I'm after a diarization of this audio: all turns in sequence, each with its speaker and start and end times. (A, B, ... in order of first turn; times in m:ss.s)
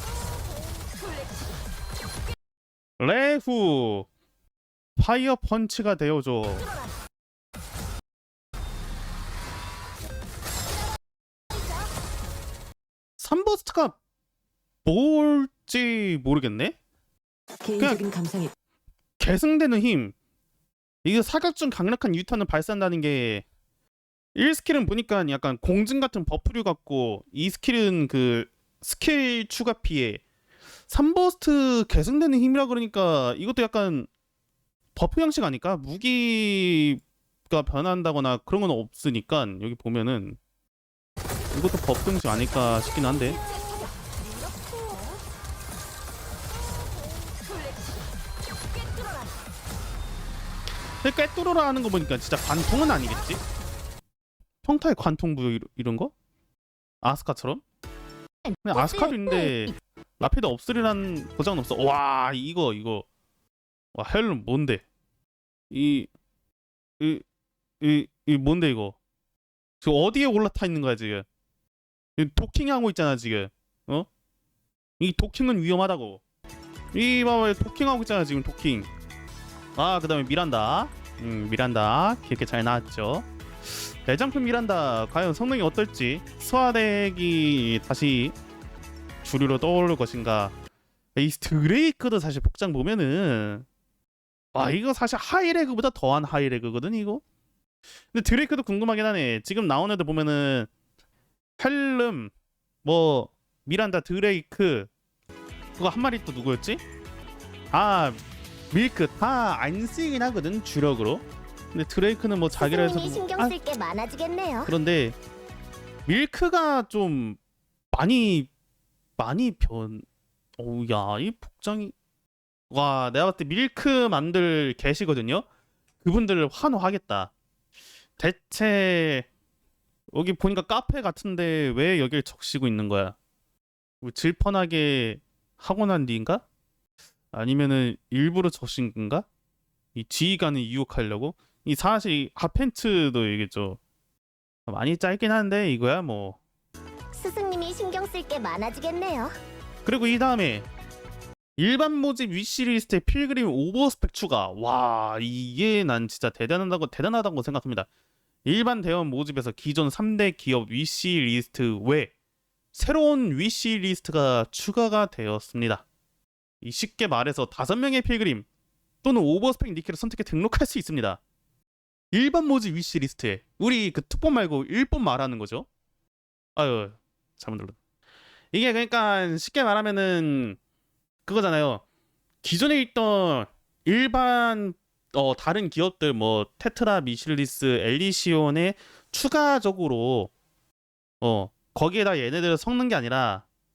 0:00.7-0:01.5 A
0:03.0-0:04.1 B
0:05.0-0:06.7 B
0:13.2-0:14.0 B
0:14.8-0:16.8 B
0:17.6-0:18.5 A
0:17.8-0:18.0 B
0:19.2-0:20.2 B
0:21.0-0:23.4 B
0:24.4-0:30.2 B
0:30.9-0:34.1 B
0:35.0-0:40.4 B
0:41.5-0:43.4 B
0:42.9-0:45.2 A
0:46.8-0:48.1 A
0:48.7-0:49.4 A
0:51.0-0:53.4 B
0:54.6-0:56.1 B
0:57.0-0:57.6 B
0:58.5-0:59.6 A
0:58.6-1:03.0 B
1:04.0-1:04.8 B
1:05.7-1:06.1 B
1:07.8-1:09.0 B
1:09.8-1:11.3 B
1:12.2-1:14.1 B
1:15.0-1:16.2 B
1:16.9-1:18.9 B
1:19.8-1:23.3 B
1:24.0-1:28.4 B
1:29.2-1:30.5 B
1:31.2-1:33.7 B
1:34.6-1:37.2 B
1:38.1-1:40.7 B
1:41.6-1:42.3 B
1:42.8-1:44.9 B
1:45.8-1:46.8 B
1:47.7-1:48.2 B
1:48.7-1:53.6 B
1:52.6-1:54.7 C
1:54.7-1:55.2 B
1:56.1-1:57.4 B
1:57.9-1:58.5 B
1:59.2-2:00.0 B
2:00.6-2:02.0 B
2:02.7-2:05.4 B
2:06.0-2:07.3 B
2:08.2-2:09.3 B
2:10.1-2:13.2 B
2:14.0-2:16.4 B
2:17.3-2:19.3 B
2:20.0-2:23.8 B
2:24.7-2:26.4 B
2:27.1-2:29.3 C
2:29.8-2:30.7 B
2:31.6-2:37.9 B
2:38.5-2:42.1 B
2:42.7-2:45.8 B
2:46.6-2:48.5 B
2:49.0-2:51.2 B
2:52.1-2:55.7 B
2:56.6-2:57.8 B
2:58.5-3:00.6 B
3:01.3-3:01.8 B
3:02.4-3:10.3 B
3:11.2-3:13.4 B